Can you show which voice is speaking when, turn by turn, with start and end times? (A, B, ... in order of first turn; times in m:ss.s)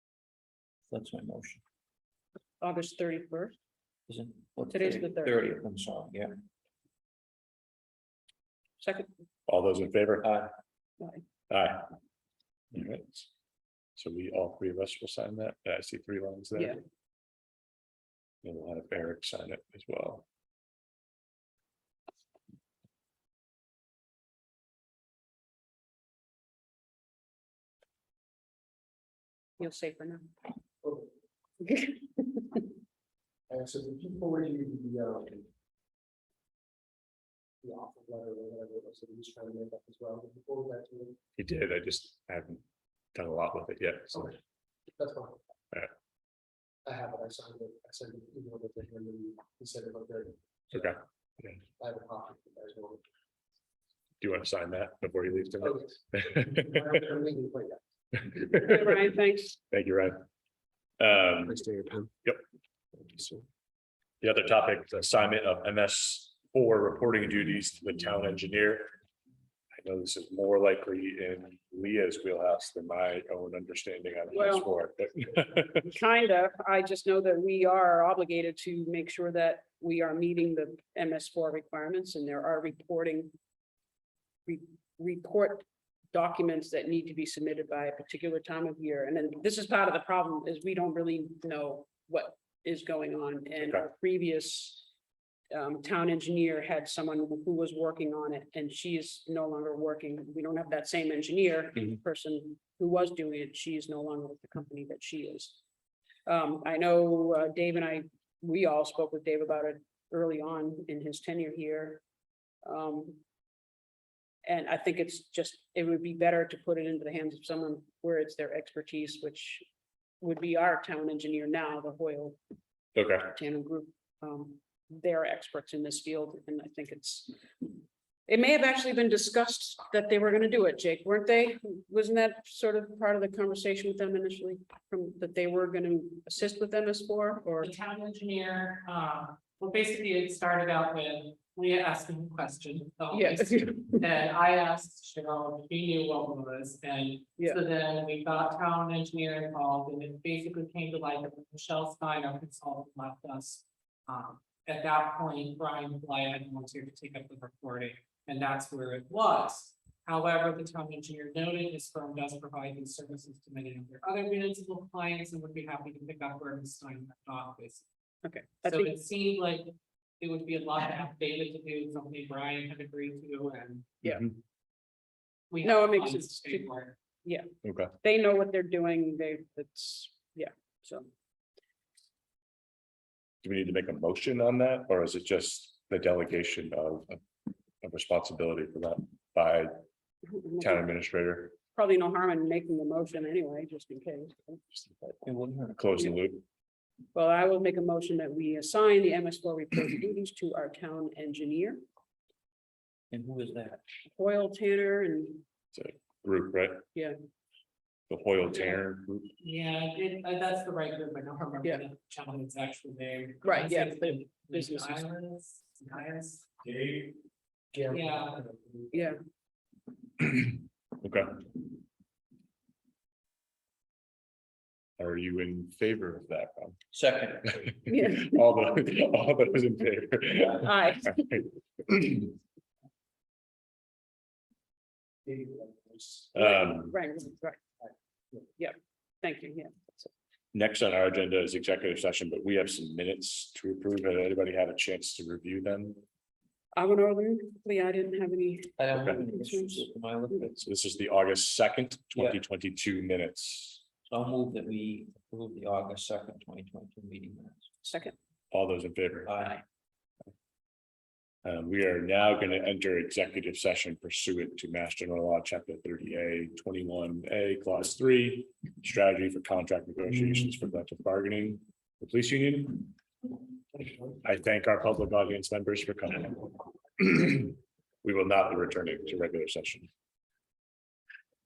0:00.9-0:01.6 A
0:02.6-0:03.6 B
0:04.1-0:06.4 A
0:04.7-0:05.4 B
0:08.8-0:09.1 B
0:09.5-0:10.3 C
0:10.2-0:10.5 A
0:11.5-0:11.9 C
0:12.7-0:13.3 C
0:14.0-0:16.7 C
0:18.4-0:20.2 C
0:29.6-0:30.3 B
0:30.8-0:31.1 D
0:31.6-0:32.6 B
0:33.5-0:35.5 D
0:37.6-0:41.2 D
0:41.4-0:42.6 C
0:43.1-0:44.3 C
0:44.9-0:45.4 D
0:46.8-0:51.0 D
0:50.7-0:51.6 C
0:51.8-0:53.0 D
0:54.2-0:56.8 C
0:55.6-0:57.8 D
0:58.3-0:59.0 C
0:58.6-0:59.6 B
0:59.7-1:00.2 C
1:01.0-1:01.6 C
1:01.4-1:02.1 D
1:03.0-1:03.4 D
1:04.2-1:08.9 C
1:09.8-1:15.8 C
1:14.3-1:14.7 B
1:15.8-1:23.3 B
1:24.4-1:34.8 B
1:35.5-1:45.6 B
1:46.2-1:52.0 B
1:52.6-1:53.2 B
1:54.4-1:59.6 B
2:00.2-2:02.4 B
2:02.9-2:03.4 C
2:03.4-2:07.3 B
2:08.3-2:17.7 B
2:17.6-2:47.8 E
2:23.1-2:24.0 B
2:48.2-2:48.9 B
2:48.6-2:53.9 E
2:54.0-2:54.3 C
2:55.5-2:57.0 E
2:55.6-2:56.7 B
2:57.2-2:57.5 B
2:57.6-2:57.9 C
2:58.0-3:01.1 B
3:03.4-3:07.2 C
3:07.8-3:09.8 C
3:10.3-3:10.9 B
3:10.6-3:11.6 C
3:11.7-3:14.6 B
3:15.2-3:16.1 A
3:15.8-3:16.4 C
3:17.1-3:21.8 B
3:23.1-3:23.8 A
3:24.1-3:25.4 B
3:25.7-3:26.8 C
3:28.1-3:29.3 C
3:29.4-3:36.5 E
3:33.4-3:35.0 B
3:36.6-3:37.1 C
3:37.7-3:39.0 D
3:37.9-3:38.4 E
3:38.9-3:39.2 B
3:40.2-3:41.5 C
3:45.0-3:46.8 C
3:46.9-3:47.6 A
3:47.5-3:52.3 C
3:47.9-3:48.3 B
3:50.6-3:51.2 B
3:55.2-3:56.3 D
3:56.3-3:56.9 C
3:56.4-3:57.6 B
3:57.8-3:58.5 D
3:58.6-4:00.0 B
4:00.5-4:06.0 C
4:06.7-4:10.3 B
4:08.8-4:10.6 A
4:09.0-4:09.2 C
4:10.5-4:13.8 C
4:12.1-4:12.4 A
4:14.1-4:17.7 A
4:17.8-4:18.1 B
4:18.5-4:19.4 C
4:19.3-4:19.6 A
4:21.4-4:32.9 C
4:33.8-4:34.1 D
4:34.2-4:39.9 C